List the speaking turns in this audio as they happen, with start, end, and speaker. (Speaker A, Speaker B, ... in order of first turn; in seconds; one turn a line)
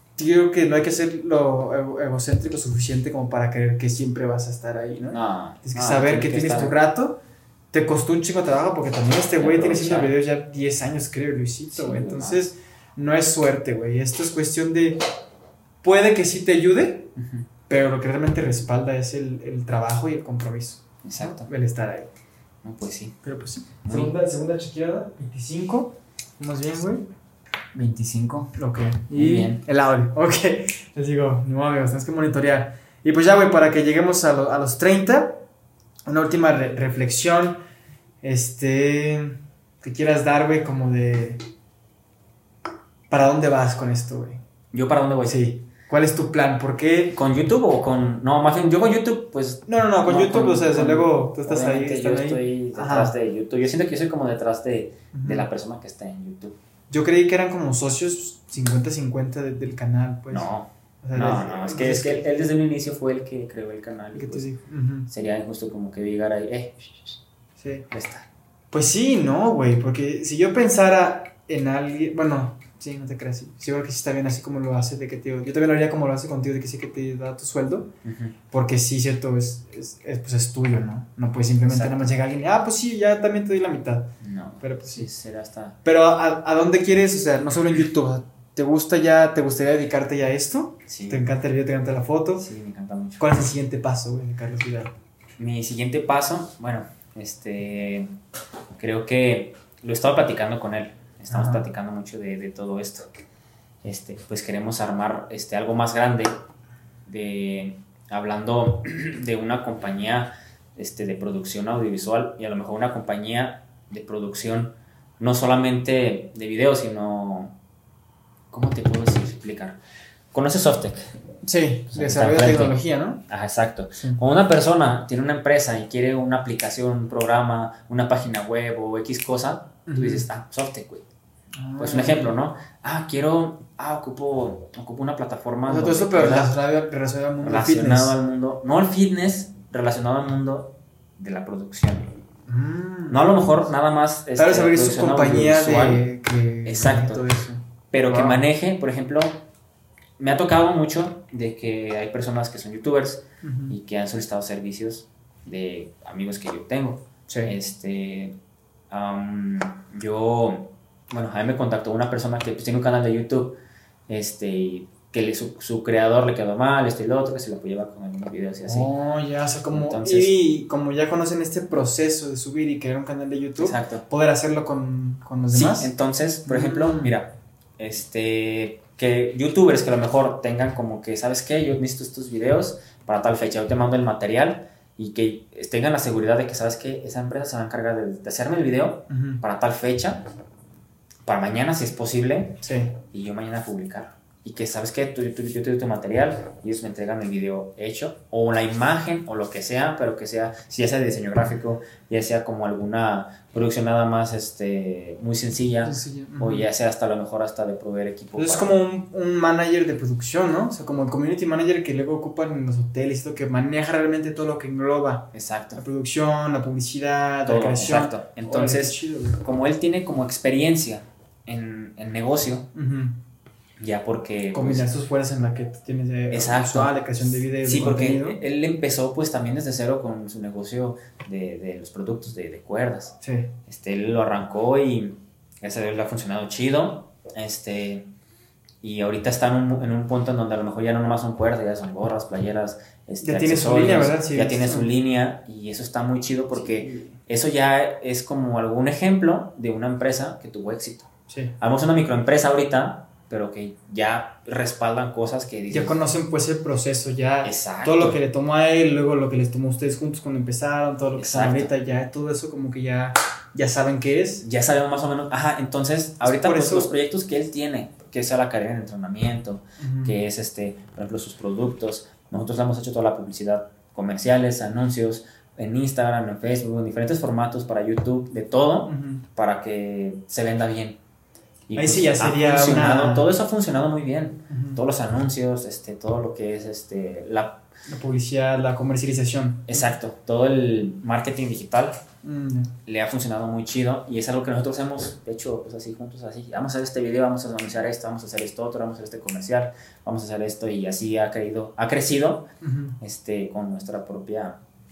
Speaker A: 0.2-7.2
Speaker B: 5.1-6.8
Speaker A: 7.7-15.0
Speaker B: 9.3-10.2
Speaker B: 11.7-12.4
Speaker A: 15.8-17.1
Speaker B: 17.2-17.5
Speaker A: 17.7-22.1
Speaker B: 21.0-21.5
Speaker B: 22.6-23.2
Speaker A: 23.2-27.1
Speaker B: 23.8-24.1
Speaker B: 27.7-28.5
Speaker A: 28.6-35.4
Speaker B: 29.1-29.6
Speaker A: 36.1-37.6
Speaker A: 38.2-41.4
Speaker A: 43.1-44.4
Speaker B: 44.7-45.4
Speaker A: 45.3-47.2
Speaker B: 47.1-56.6
Speaker A: 49.7-53.1
Speaker A: 55.1-55.5
Speaker A: 56.9-60.5
Speaker B: 60.3-64.5
Speaker A: 61.0-62.4
Speaker A: 64.1-65.1
Speaker B: 65.1-66.8
Speaker A: 67.6-67.9
Speaker B: 67.9-68.3
Speaker A: 68.7-77.9
Speaker B: 78.0-78.3
Speaker A: 78.5-85.1
Speaker B: 81.7-82.0
Speaker B: 84.2-85.8
Speaker A: 85.8-92.5
Speaker B: 90.9-91.2
Speaker B: 92.4-93.3
Speaker A: 93.2-94.9
Speaker B: 95.4-98.1
Speaker B: 98.7-103.1
Speaker A: 101.3-101.7
Speaker B: 103.8-106.3
Speaker B: 107.1-117.5
Speaker B: 118.5-119.8
Speaker B: 120.3-121.0
Speaker A: 121.4-123.2
Speaker B: 121.9-122.8
Speaker B: 123.3-131.1
Speaker A: 129.9-130.3
Speaker A: 131.6-132.4
Speaker B: 131.8-136.5
Speaker A: 135.7-138.2
Speaker B: 137.4-142.1
Speaker A: 142.5-143.4
Speaker B: 143.1-146.1
Speaker A: 144.3-148.4
Speaker B: 146.7-147.3
Speaker B: 147.9-149.4
Speaker B: 150.2-158.4
Speaker A: 153.4-153.8
Speaker A: 157.3-157.6
Speaker B: 158.9-168.9
Speaker A: 168.7-175.9
Speaker B: 169.7-170.3
Speaker B: 173.6-174.0
Speaker B: 175.5-190.2
Speaker A: 176.4-177.2
Speaker A: 189.1-189.4
Speaker B: 191.2-208.8
Speaker A: 192.6-193.0
Speaker A: 205.8-206.7
Speaker A: 208.4-219.4
Speaker B: 215.3-215.8
Speaker B: 217.5-222.7
Speaker A: 222.8-223.2
Speaker B: 223.8-224.9
Speaker A: 224.5-228.4
Speaker B: 226.3-233.2
Speaker A: 233.2-233.5
Speaker B: 233.7-238.1
Speaker B: 238.8-256.0
Speaker A: 243.2-244.9
Speaker A: 246.5-247.2
Speaker A: 251.3-251.5
Speaker A: 255.7-264.5
Speaker B: 257.4-258.2
Speaker B: 261.2-261.7
Speaker B: 264.4-281.0
Speaker A: 266.2-266.9
Speaker A: 269.8-270.2
Speaker A: 278.9-279.2
Speaker B: 281.7-287.6
Speaker A: 281.8-283.3
Speaker A: 284.5-284.8
Speaker A: 287.9-289.9
Speaker B: 289.7-292.0
Speaker A: 292.2-292.7
Speaker B: 292.9-302.5
Speaker A: 302.6-303.0
Speaker B: 303.0-304.6